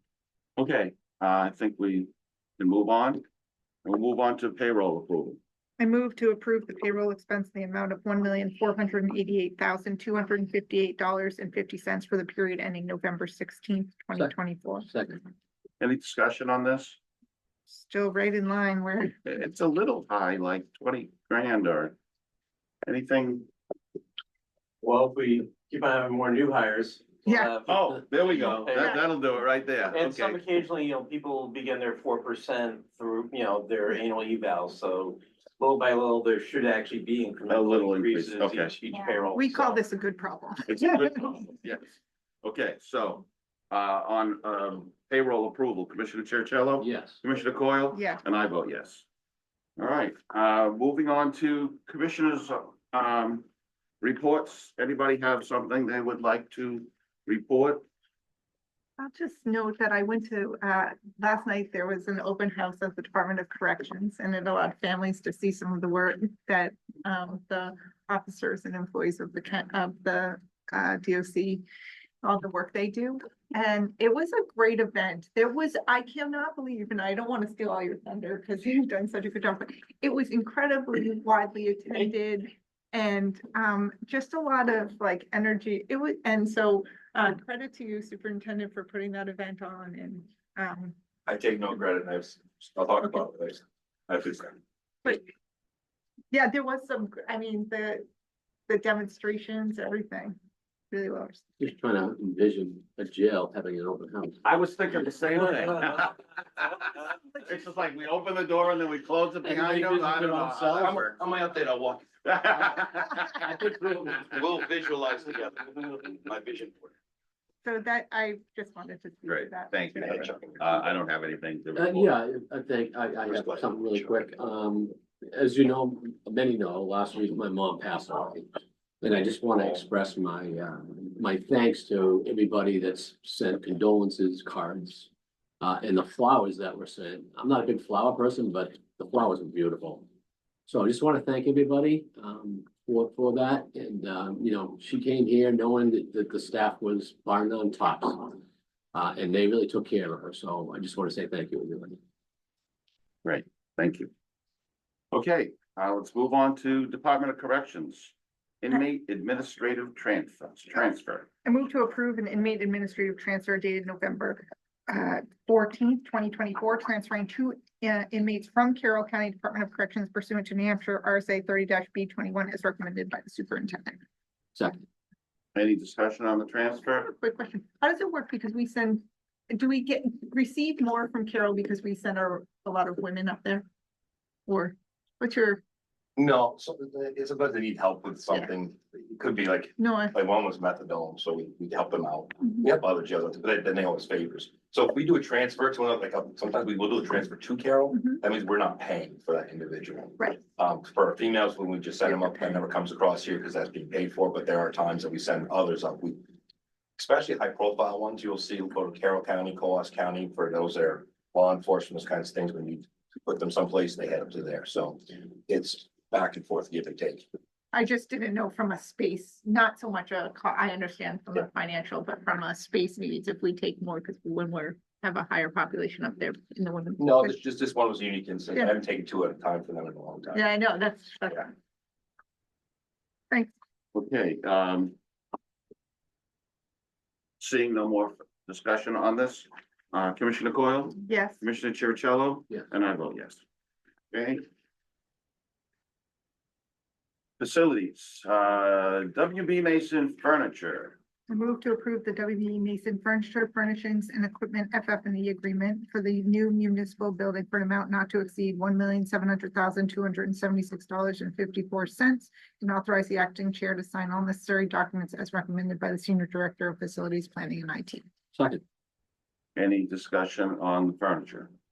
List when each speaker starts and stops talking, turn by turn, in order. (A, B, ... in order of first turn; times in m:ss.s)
0:00.6-0:03.2 A
0:03.8-0:05.4 A
0:05.8-0:14.9 B
0:14.9-0:15.2 C
0:15.8-0:17.0 A
0:17.7-0:19.2 B
0:19.2-0:22.0 A
0:22.8-0:23.5 A
0:24.8-0:29.0 D
0:27.2-0:27.5 B
0:27.6-0:30.5 A
0:28.3-0:29.0 B
0:29.9-0:39.8 D
0:37.5-0:38.8 A
0:39.3-0:41.4 B
0:40.7-0:49.0 A
0:46.8-0:47.2 C
0:47.9-0:48.2 B
0:49.8-0:53.5 A
0:54.0-0:57.8 A
0:59.0-1:11.6 B
1:12.2-1:30.9 B
1:31.3-1:34.6 E
1:36.3-1:38.0 B
1:38.7-1:40.4 B
1:40.9-1:41.4 B
1:41.6-1:45.4 C
1:44.4-1:46.2 A
1:47.4-1:51.1 A
1:49.4-1:51.0 C
1:50.6-1:53.0 E
1:52.2-1:53.3 A
1:53.3-1:54.4 C
1:54.3-1:56.9 E
1:57.6-2:00.3 B
1:59.3-2:02.1 A
2:00.0-2:00.6 E
2:01.7-2:15.1 C
2:03.3-2:03.7 E
2:15.6-2:20.0 C
2:20.7-2:28.4 C
2:28.9-2:32.0 C
2:33.2-2:34.1 A
2:35.1-2:41.3 A
2:41.4-2:54.0 B
2:54.5-2:54.8 C
2:55.5-2:57.1 A
2:56.8-3:03.6 B
3:04.5-3:05.6 B
3:06.2-3:26.2 E
3:09.8-3:10.1 B
3:17.9-3:18.2 B
3:27.0-3:37.3 E
3:37.7-3:47.4 B
3:47.0-3:50.4 E
3:50.3-3:51.5 B
3:53.9-3:54.9 A
3:57.4-4:03.4 A
4:01.0-4:01.4 B
4:04.1-4:04.4 A
4:07.4-4:11.0 A
4:11.3-4:28.1 B
4:28.3-4:28.6 C
4:29.6-4:31.5 A